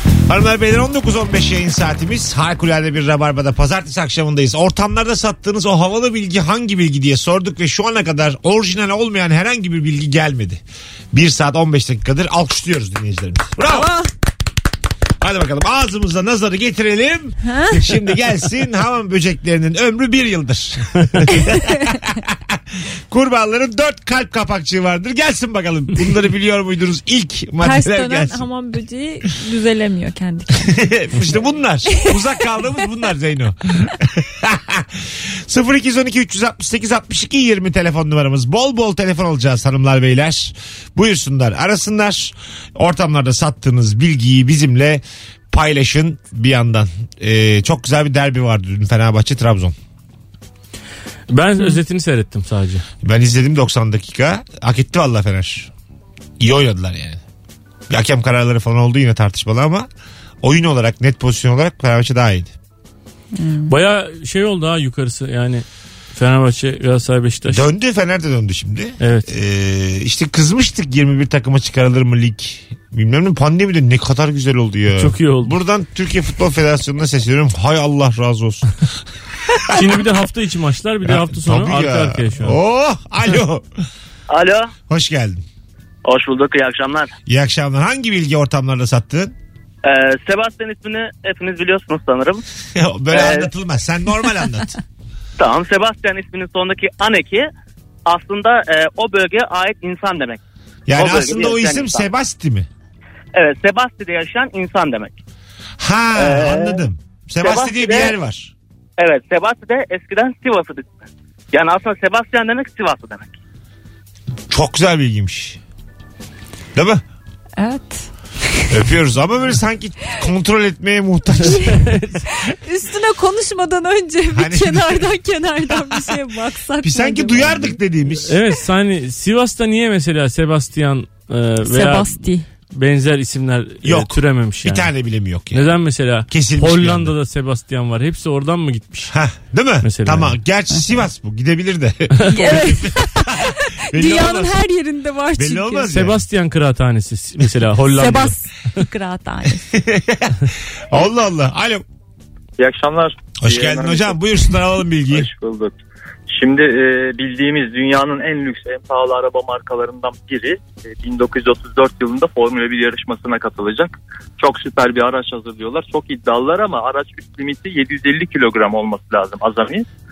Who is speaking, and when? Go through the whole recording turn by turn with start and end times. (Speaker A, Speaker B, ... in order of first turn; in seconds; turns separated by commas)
Speaker A: 0.3-13.9, Speaker B: 13.7-14.1, Speaker A: 15.2-22.6, Speaker B: 17.4-17.8, Speaker A: 23.1-28.4, Speaker B: 27.6-30.7, Speaker A: 30.5-49.7, Speaker B: 31.9-32.1, Speaker C: 51.3-52.8, Speaker A: 53.0-55.7, Speaker A: 56.4-57.2, Speaker A: 57.9-59.9, Speaker A: 60.4-62.5, Speaker B: 63.4-63.7, Speaker C: 63.7-67.6, Speaker A: 67.5-78.7, Speaker C: 69.0-69.3, Speaker C: 75.0-75.5, Speaker C: 79.7-82.6, Speaker A: 81.0-83.8, Speaker D: 84.3-84.7, Speaker A: 84.9-85.4, Speaker D: 86.0-87.1, Speaker A: 87.3-89.3, Speaker D: 89.8-92.4, Speaker A: 92.7-94.8, Speaker D: 93.1-93.5, Speaker D: 95.4-97.5, Speaker D: 98.0-100.4, Speaker A: 100.9-102.7, Speaker D: 101.0-102.1, Speaker D: 103.3-105.1, Speaker A: 105.8-108.5, Speaker D: 106.2-106.8, Speaker D: 107.4-108.1, Speaker D: 109.0-111.0, Speaker D: 111.5-113.3, Speaker A: 114.5-115.6, Speaker A: 116.7-117.0, Speaker B: 117.6-118.7, Speaker A: 118.7-121.7, Speaker B: 121.4-127.8, Speaker C: 121.4-122.2, Speaker A: 124.3-125.1, Speaker A: 125.7-126.2, Speaker A: 126.8-128.4, Speaker C: 128.3-132.1, Speaker B: 131.6-132.5, Speaker C: 132.7-134.9, Speaker A: 133.8-137.1, Speaker C: 135.5-139.1, Speaker A: 139.1-144.6, Speaker C: 139.8-140.3, Speaker C: 142.1-142.5, Speaker B: 142.3-145.9, Speaker A: 145.3-146.2, Speaker C: 145.9-148.4, Speaker B: 147.8-149.7, Speaker A: 149.7-151.8, Speaker E: 152.6-154.3, Speaker A: 153.4-155.3, Speaker E: 155.0-155.7, Speaker E: 156.3-169.8